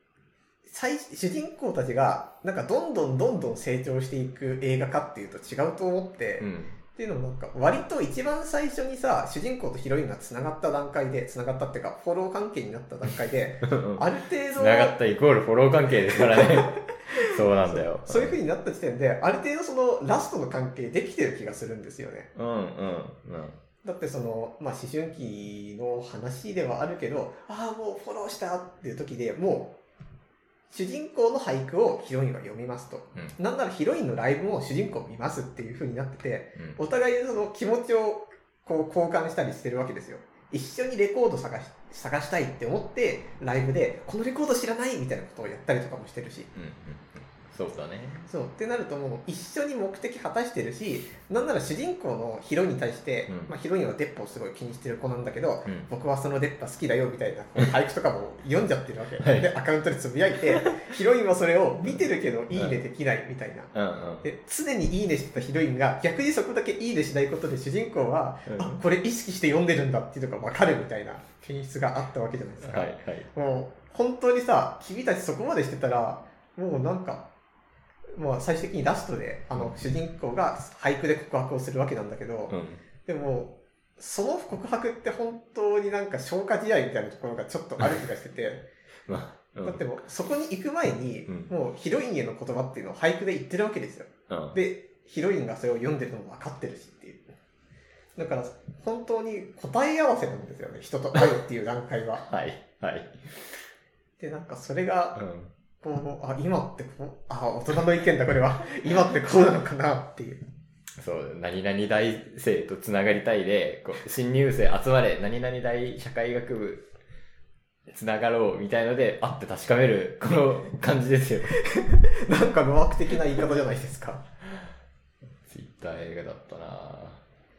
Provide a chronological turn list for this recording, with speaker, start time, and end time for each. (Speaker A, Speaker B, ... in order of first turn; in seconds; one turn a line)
Speaker A: 0.7-14.9
Speaker B: 6.4-6.8
Speaker B: 13.7-18.4
Speaker A: 16.1-22.3
Speaker B: 22.3-23.6
Speaker A: 23.8-29.7
Speaker A: 30.7-46.5
Speaker B: 46.5-48.3
Speaker A: 48.3-63.7
Speaker B: 59.2-59.5
Speaker B: 62.5-62.8
Speaker B: 63.7-64.2
Speaker A: 64.2-77.2
Speaker B: 68.5-68.7
Speaker B: 72.6-73.3
Speaker A: 78.1-88.6
Speaker B: 82.5-82.8
Speaker B: 89.1-89.8
Speaker A: 89.6-97.2
Speaker B: 94.3-94.5
Speaker A: 98.2-102.2
Speaker B: 102.2-103.7
Speaker A: 104.2-105.2
Speaker B: 105.2-105.5
Speaker A: 105.8-110.4
Speaker B: 111.0-116.8
Speaker B: 117.9-121.6
Speaker A: 121.6-124.2
Speaker B: 125.5-127.2